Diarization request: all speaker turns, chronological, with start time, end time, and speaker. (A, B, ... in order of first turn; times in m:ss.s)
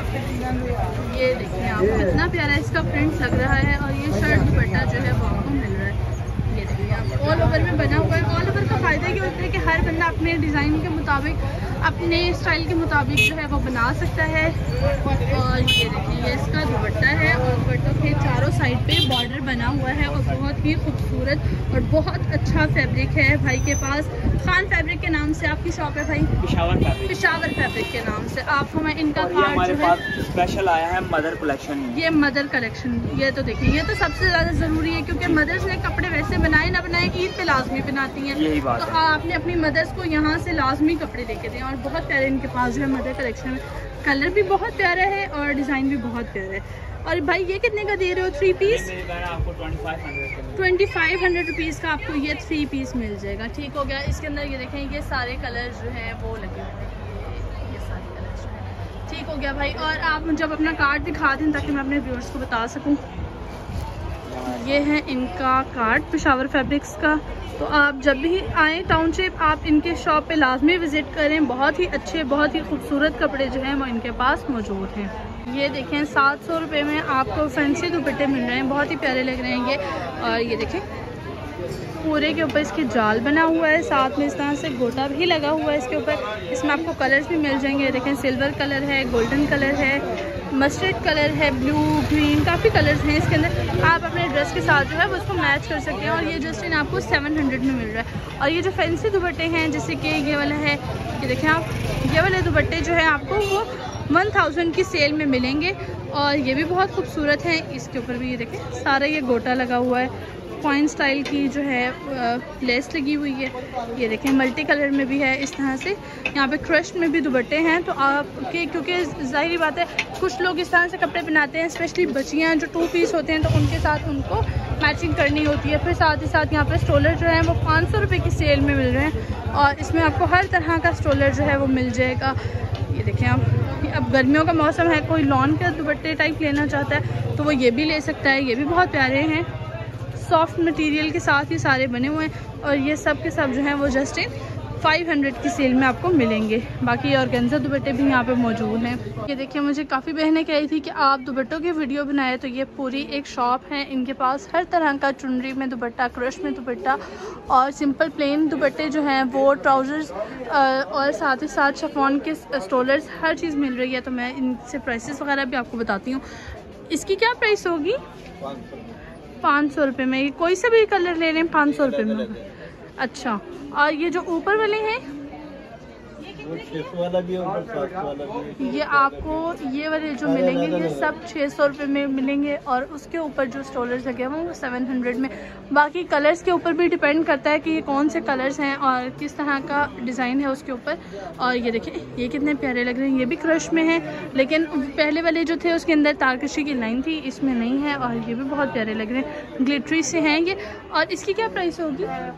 0:01.0-0:14.6 A
0:15.3-0:26.3 A
0:26.4-0:27.4 B
0:27.1-0:30.0 A
0:29.2-0:32.0 B
0:31.9-0:48.9 A
0:38.3-0:39.0 B
0:48.6-0:50.6 B
0:50.6-1:03.0 A
1:04.3-1:04.9 B
1:04.4-1:20.8 A
1:22.0-1:30.0 A
1:30.5-2:12.4 A
2:12.9-2:19.5 A
2:20.1-2:46.2 A
2:46.9-2:48.0 A
2:48.4-2:48.9 C
2:49.4-2:52.4 A
2:51.8-2:52.3 C
2:53.0-2:55.0 A
2:56.3-2:58.9 C
2:58.6-3:22.2 A
3:00.2-3:01.1 C